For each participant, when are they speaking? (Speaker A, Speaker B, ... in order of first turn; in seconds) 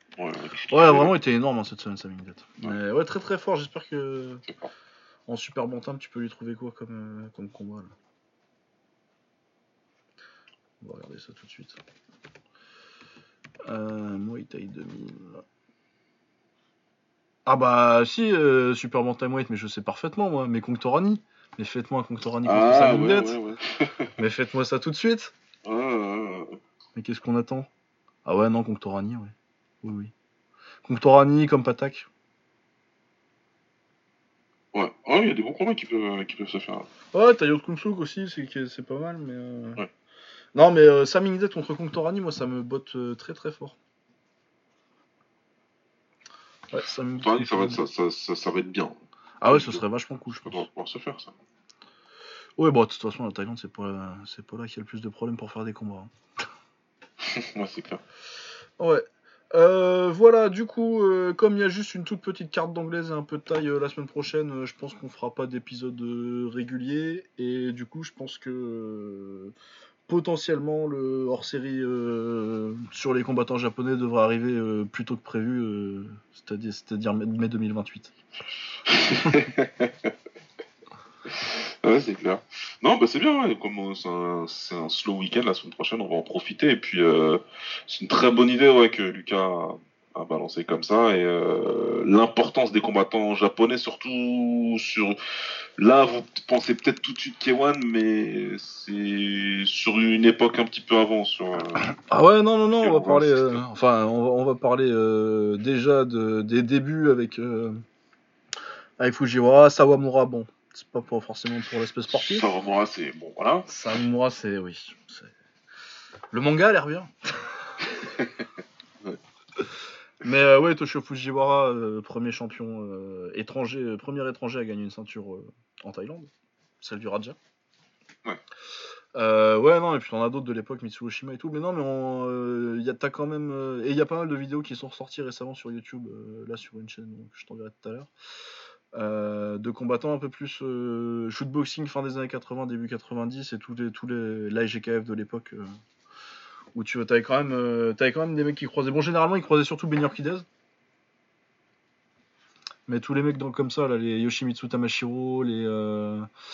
Speaker A: 0.2-1.2, 22.4-24.2, 25.6-26.6, 34.7-36.9, 47.2-51.3, 57.2-58.0, 78.8-80.1, 81.2-101.9, 102.8-103.7, 112.1-113.7, 118.1-118.5
Speaker B: 0.7-4.5, 5.3-7.9, 10.8-11.8, 13.6-15.4, 17.4-23.4, 24.2-25.3, 26.9-27.7, 28.2-30.1, 30.8-32.1, 37.1-39.8, 40.5-43.8, 46.7-47.8, 49.4-50.6, 52.6-56.1, 58.8-69.5, 70.1-78.1, 101.9-107.8, 109.0-112.5, 113.7-115.3, 116.3-117.5, 120.2-126.3, 126.8-127.4, 129.1-138.1, 138.9-145.8, 146.7-150.4, 152.9-156.3